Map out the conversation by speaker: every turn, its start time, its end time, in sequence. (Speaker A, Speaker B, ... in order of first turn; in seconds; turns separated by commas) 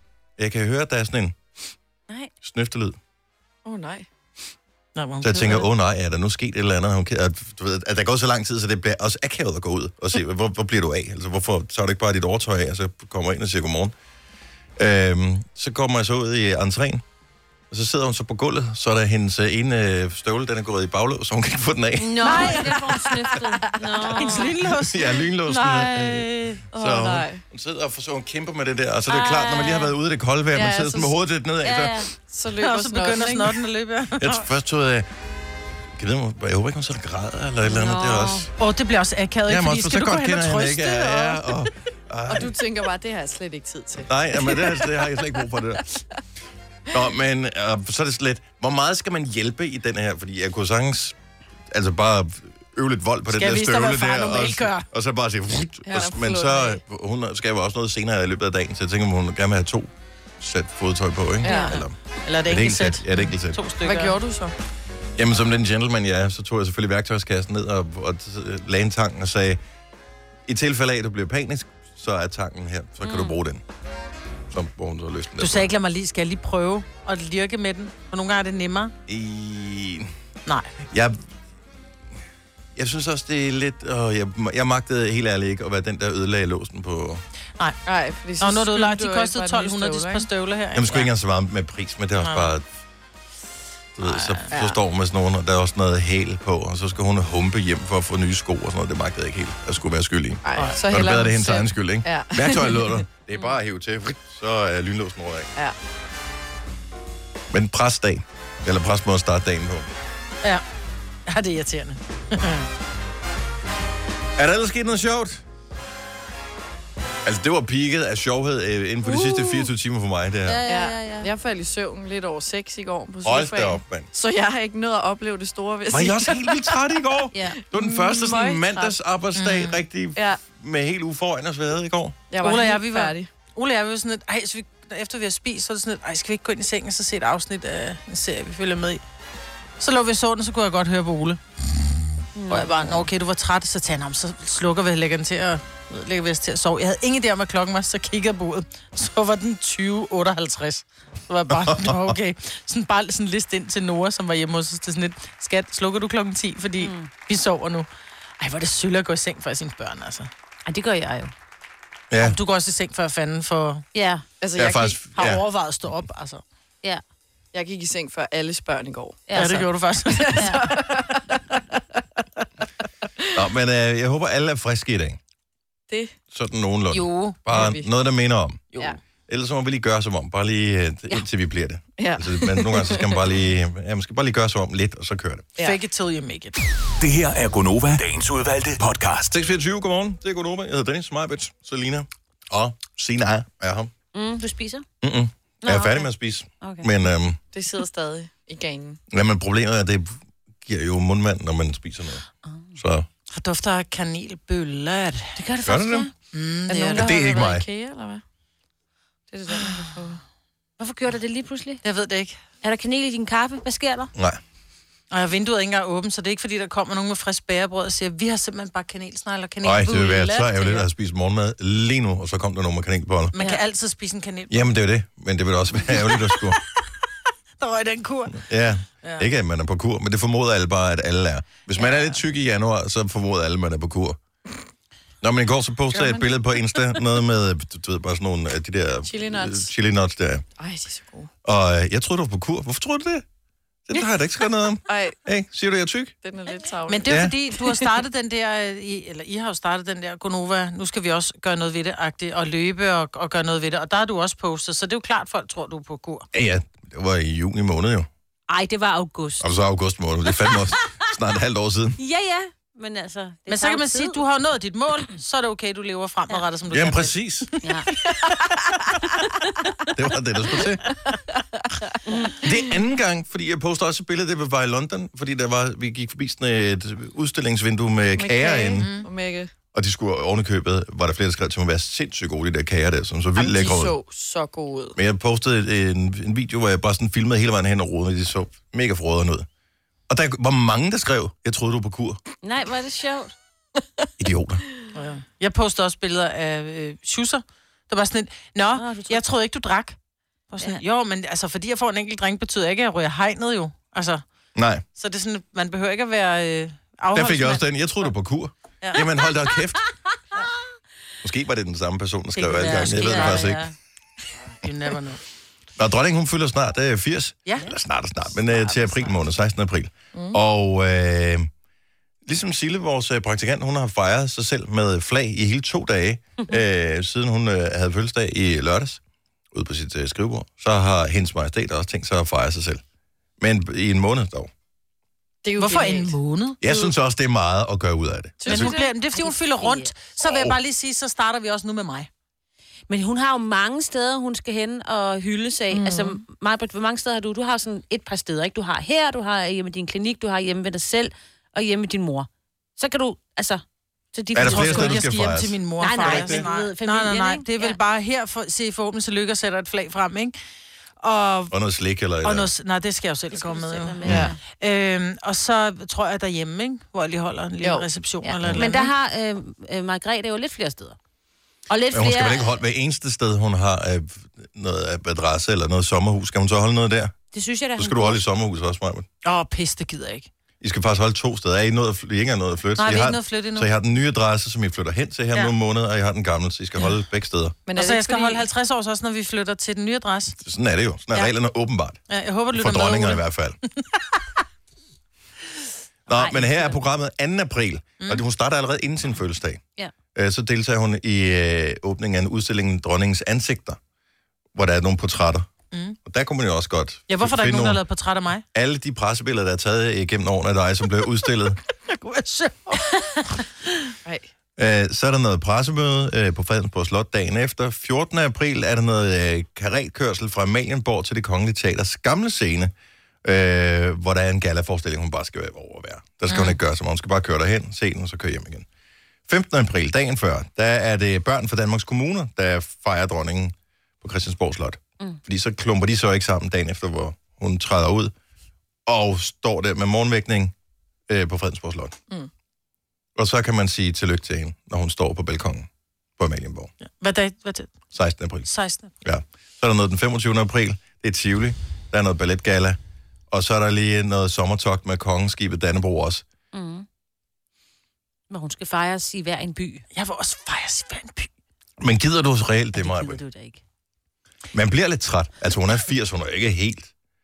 Speaker A: 0.4-1.4, Speaker A: 2.4-3.0, Speaker B: 3.6-4.1, Speaker C: 5.0-5.7, Speaker A: 5.2-13.9, Speaker A: 14.8-17.0, Speaker A: 17.7-22.6, Speaker D: 22.0-24.6, Speaker C: 22.2-22.8, Speaker C: 24.1-26.6, Speaker A: 24.7-32.0, Speaker B: 26.7-27.4, Speaker D: 29.1-29.9, Speaker B: 30.6-31.1, Speaker D: 31.6-32.1, Speaker B: 32.3-33.6, Speaker C: 32.6-34.4, Speaker A: 34.2-35.1, Speaker A: 36.0-38.5, Speaker D: 37.7-38.5, Speaker C: 38.6-41.4, Speaker A: 39.5-42.5, Speaker B: 42.3-45.4, Speaker A: 44.1-45.9, Speaker A: 46.9-51.2, Speaker A: 51.7-62.0, Speaker C: 53.3-54.9, Speaker B: 55.9-56.8, Speaker B: 61.4-61.8, Speaker C: 61.5-64.2, Speaker A: 62.5-63.6, Speaker B: 63.8-64.5, Speaker A: 65.2-69.6, Speaker A: 70.5-73.6, Speaker D: 73.0-73.3, Speaker A: 74.5-75.7, Speaker C: 75.4-78.9, Speaker A: 79.1-80.1, Speaker A: 80.9-81.2, Speaker A: 82.8-87.2, Speaker B: 87.8-90.3, Speaker C: 88.4-91.1, Speaker A: 90.8-92.7, Speaker C: 92.2-92.5, Speaker A: 94.0-105.5, Speaker C: 94.0-94.5, Speaker B: 94.5-94.8, Speaker B: 100.4-103.0, Speaker A: 107.5-109.9, Speaker C: 111.3-112.7, Speaker A: 114.4-115.4, Speaker A: 117.2-120.6, Speaker D: 120.5-121.3, Speaker B: 120.7-126.8, Speaker A: 123.2-124.1, Speaker A: 125.9-132.2, Speaker B: 127.7-129.0, Speaker C: 129.3-129.8, Speaker B: 130.2-130.4, Speaker B: 132.3-133.3, Speaker C: 132.4-139.0, Speaker C: 139.8-141.4, Speaker D: 142.3-143.0, Speaker C: 142.5-157.9, Speaker A: 151.5-152.1, Speaker D: 156.8-157.1, Speaker C: 158.4-160.3, Speaker D: 160.7-161.3, Speaker A: 162.1-162.3, Speaker C: 162.2-163.8, Speaker D: 163.9-164.2, Speaker B: 164.4-165.0, Speaker A: 164.6-165.4, Speaker C: 165.1-166.4, Speaker B: 167.5-169.2, Speaker D: 169.3-169.7, Speaker C: 169.3-170.8, Speaker B: 170.1-171.3, Speaker D: 170.3-170.6, Speaker A: 173.3-175.2, Speaker A: 176.3-178.7, Speaker C: 176.9-177.3, Speaker B: 177.5-177.9, Speaker A: 179.3-185.5, Speaker B: 182.0-183.2, Speaker C: 185.6-186.6, Speaker E: 187.0-189.3, Speaker A: 189.3-193.9, Speaker D: 194.1-194.8, Speaker A: 195.0-197.4, Speaker D: 195.7-196.1, Speaker D: 196.6-196.9, Speaker B: 197.5-199.0, Speaker A: 199.1-202.2, Speaker A: 202.8-203.1, Speaker C: 203.3-205.4, Speaker D: 205.3-206.1, Speaker A: 205.7-206.1, Speaker C: 206.3-207.1, Speaker B: 206.7-208.2, Speaker A: 207.0-207.6, Speaker D: 207.0-207.5, Speaker B: 209.3-210.2, Speaker D: 210.8-211.8, Speaker C: 211.8-212.3, Speaker D: 212.6-214.1, Speaker A: 214.2-214.4, Speaker C: 215.1-220.8, Speaker A: 219.6-223.3, Speaker C: 223.3-224.7, Speaker A: 224.5-226.6, Speaker C: 227.6-228.4, Speaker A: 228.3-234.2, Speaker A: 235.2-240.5, Speaker B: 235.9-236.3, Speaker B: 239.1-239.7, Speaker B: 240.6-241.3, Speaker A: 241.4-243.2, Speaker A: 243.9-246.1, Speaker B: 244.9-245.2, Speaker B: 246.2-247.8, Speaker C: 246.9-256.2, Speaker A: 247.1-247.3, Speaker A: 256.3-258.1, Speaker D: 258.5-259.5, Speaker A: 259.4-262.0, Speaker D: 262.0-264.2, Speaker C: 263.5-267.1, Speaker A: 266.7-267.5, Speaker D: 267.6-267.9, Speaker A: 269.9-270.8, Speaker D: 272.1-272.4, Speaker A: 272.4-278.9, Speaker B: 278.2-279.5, Speaker C: 278.8-279.1, Speaker A: 279.7-283.9, Speaker B: 283.4-285.0, Speaker A: 284.9-289.4, Speaker A: 290.1-292.2, Speaker D: 292.4-293.3, Speaker A: 294.2-294.6, Speaker C: 294.9-300.0, Speaker D: 298.8-299.2, Speaker C: 300.5-304.2, Speaker A: 304.5-304.9, Speaker C: 304.9-307.6, Speaker A: 307.1-309.8, Speaker A: 311.2-313.6, Speaker C: 312.4-313.6, Speaker D: 312.6-313.7, Speaker C: 314.6-315.2, Speaker A: 315.8-321.5, Speaker C: 318.5-319.1, Speaker B: 320.1-320.4, Speaker A: 322.2-329.0, Speaker A: 329.5-332.8, Speaker A: 333.4-334.5, Speaker B: 335.4-336.2, Speaker C: 335.6-336.7, Speaker A: 336.6-338.7, Speaker B: 338.4-338.7, Speaker C: 338.5-342.1, Speaker D: 338.5-339.9, Speaker A: 340.2-340.5, Speaker D: 342.9-355.0, Speaker B: 345.7-346.2, Speaker A: 354.3-356.5, Speaker C: 354.4-360.4, Speaker D: 355.8-357.8, Speaker C: 361.0-361.5, Speaker A: 361.5-362.5, Speaker C: 362.2-368.9, Speaker D: 363.3-364.4, Speaker A: 364.0-364.3, Speaker B: 364.1-364.3, Speaker B: 367.6-367.9, Speaker D: 368.2-371.0, Speaker D: 371.7-372.5, Speaker A: 371.9-377.1, Speaker D: 377.3-378.2, Speaker A: 377.8-379.1, Speaker C: 379.2-380.3, Speaker A: 380.6-387.6, Speaker C: 382.8-383.7, Speaker B: 387.6-388.4, Speaker C: 387.8-390.3, Speaker A: 390.3-392.0, Speaker C: 392.1-393.2, Speaker A: 392.5-393.6, Speaker A: 396.1-399.6, Speaker D: 396.1-396.8, Speaker A: 400.1-403.8, Speaker A: 404.5-405.5, Speaker C: 405.7-406.0, Speaker A: 406.0-407.8, Speaker C: 407.1-408.4, Speaker A: 408.5-411.6, Speaker C: 411.9-413.4, Speaker A: 414.6-422.7, Speaker A: 423.2-428.6, Speaker C: 426.3-426.5, Speaker A: 429.3-438.1, Speaker A: 438.9-440.5, Speaker A: 441.1-441.9, Speaker A: 443.1-446.7, Speaker C: 446.8-447.8, Speaker A: 447.9-448.5, Speaker C: 448.5-448.9, Speaker A: 449.0-452.8, Speaker A: 453.3-456.2, Speaker D: 456.5-456.9, Speaker D: 458.3-459.8, Speaker C: 459.9-461.3, Speaker A: 461.8-463.2, Speaker D: 462.8-463.6, Speaker A: 464.5-466.9